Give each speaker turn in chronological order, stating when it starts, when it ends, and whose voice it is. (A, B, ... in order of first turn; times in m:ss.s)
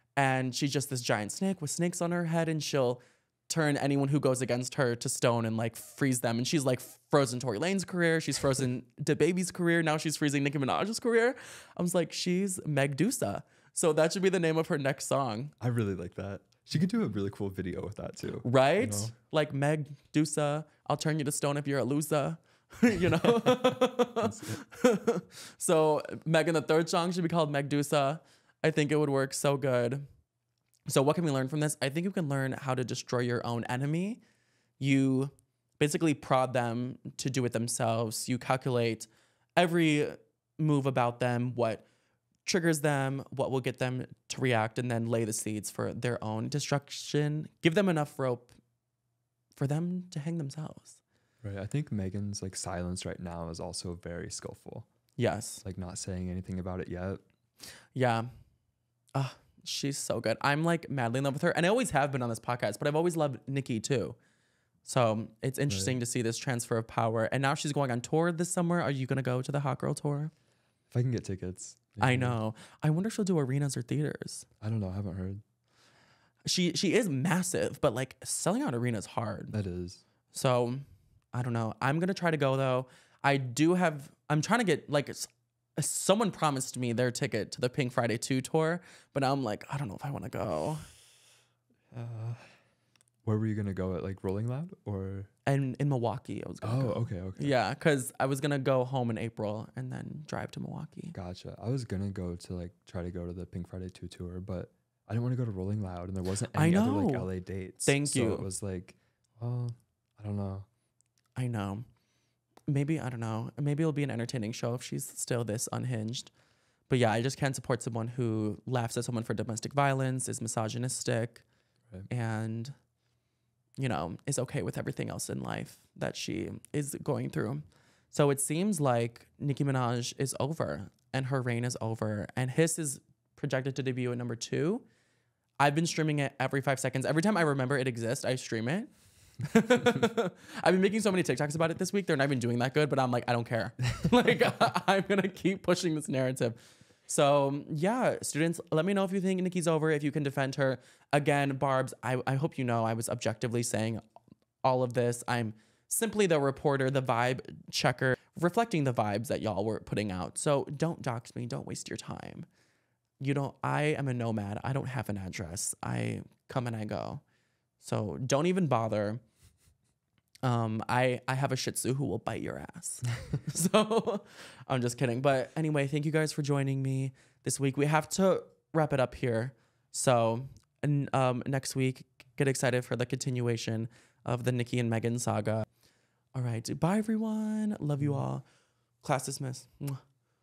0:00.2-0:15.5 A
0:15.6-0:19.1 B
0:18.4-0:30.1 A
0:23.2-0:24.6 B
0:30.9-0:34.2 A
0:34.8-0:41.8 A
0:42.4-0:48.5 A
0:49.6-0:51.0 A
0:51.4-0:54.9 B
0:55.2-0:55.6 A
0:55.6-0:57.2 B
0:58.0-0:58.3 A
0:59.2-1:04.2 A
1:04.8-1:10.3 A
1:05.7-1:06.0 B
1:10.9-1:12.4 B
1:12.0-1:14.5 A
1:14.6-1:15.4 B
1:16.4-1:19.6 A
1:19.5-1:20.0 B
1:20.3-1:30.9 A
1:31.9-1:32.5 B
1:33.2-1:35.3 B
1:35.5-1:41.2 A
1:36.6-1:37.5 B
1:41.2-1:50.7 B
1:46.5-1:47.3 A
1:47.9-1:48.5 A
1:51.4-1:51.8 A
1:52.7-1:56.3 A
1:56.9-2:01.4 A
2:02.1-2:02.7 A
2:03.8-2:14.8 A
2:15.6-2:34.0 A
2:34.6-2:42.5 A
2:43.2-2:47.2 A
2:47.8-2:49.2 A
2:50.4-3:05.7 A
3:06.4-3:08.4 A
3:08.0-3:08.2 B
3:09.0-3:10.0 A